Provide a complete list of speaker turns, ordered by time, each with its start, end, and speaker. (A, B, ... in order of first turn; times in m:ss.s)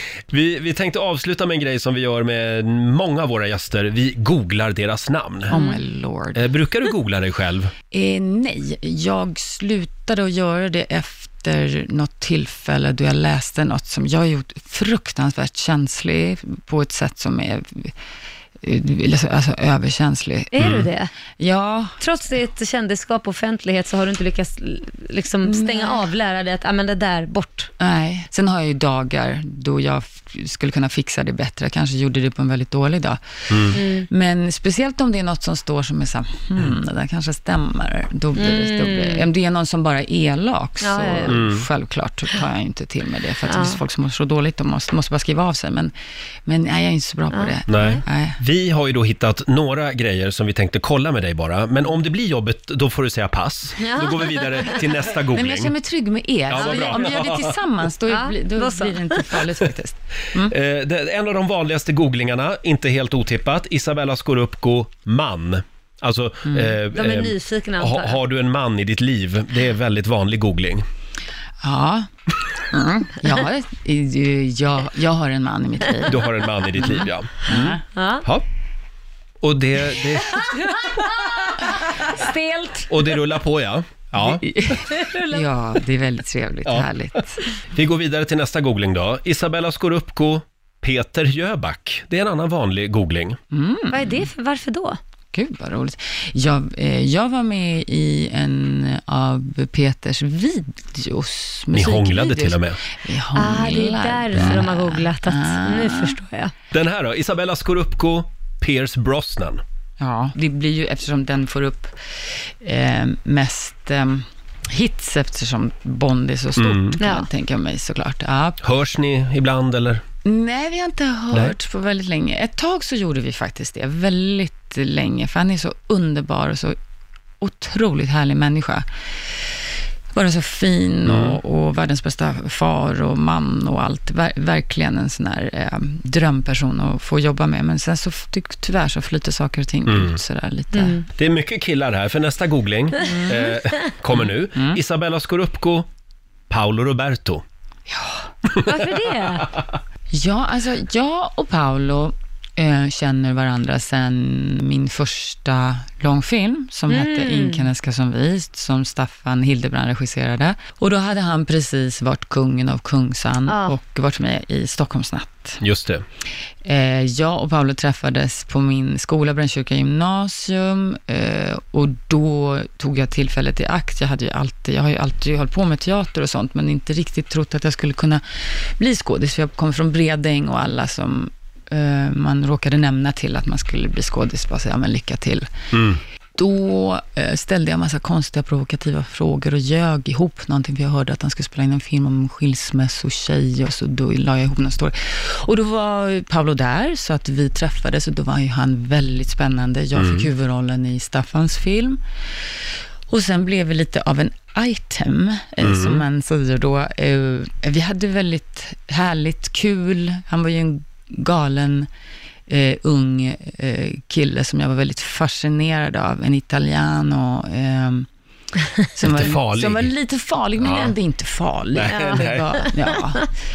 0:00.3-0:05.5 A
0:05.5-0:06.4 B
0:05.5-0:05.8 C
0:06.3-0:07.7 A
0:07.9-0:17.9 B
0:18.6-0:20.5 B
0:20.5-0:21.1 C
0:20.6-0:20.9 A
0:21.4-0:22.0 B
0:22.0-0:27.7 C
0:25.4-0:26.1 B
0:27.8-0:45.9 B
0:33.5-0:33.8 A
0:33.7-0:34.1 C
0:38.4-0:39.2 C
0:40.8-0:41.4 C
0:41.2-0:41.6 A
0:43.4-0:43.8 C
0:46.4-0:48.4 B
0:47.3-0:48.0 C
0:47.7-0:55.7 A
0:53.8-0:54.8 C
0:55.2-1:00.5 B
0:56.5-0:57.5 A
0:56.5-0:57.1 C
0:58.1-0:59.4 C
1:00.4-1:10.8 A
1:06.4-1:06.7 B
1:06.9-1:08.2 C
1:11.6-1:12.1 B
1:12.6-1:17.8 B
1:16.1-1:18.4 A
1:17.9-1:18.2 C
1:19.4-1:20.5 A
1:20.3-1:22.9 C
1:22.9-1:24.5 A
1:24.2-1:27.4 B
1:25.0-1:25.4 C
1:27.7-1:33.4 A
1:33.5-1:34.3 B
1:33.9-1:35.0 C
1:35.3-1:46.2 B
1:41.7-1:42.8 A
1:43.3-1:46.5 C
1:46.7-1:49.6 A
1:50.0-1:58.6 B
1:56.6-1:57.0 A
1:57.0-1:57.3 C
1:58.6-2:00.0 A
2:00.2-2:06.7 B
2:07.4-2:08.8 B
2:10.1-2:21.0 B
2:11.1-2:11.4 A
2:19.9-2:20.2 A
2:20.7-2:21.0 C
2:21.2-2:25.9 A
2:23.0-2:23.6 B
2:24.2-2:24.8 B
2:26.5-2:27.4 A
2:27.9-2:28.3 B
2:28.5-2:29.5 C
2:30.1-2:45.6 B
2:36.9-2:37.7 C
2:43.5-2:43.7 C
2:45.6-2:46.0 A
2:46.6-3:05.5 B
3:05.7-3:06.0 A
3:06.3-3:22.0 B
3:20.0-3:20.3 A
3:23.1-3:31.9 B
3:25.6-3:26.0 A
3:32.5-3:38.1 B
3:38.9-3:43.3 B
3:39.0-3:39.9 A
3:40.6-3:40.9 A
3:41.7-3:42.5 A
3:41.9-3:42.7 C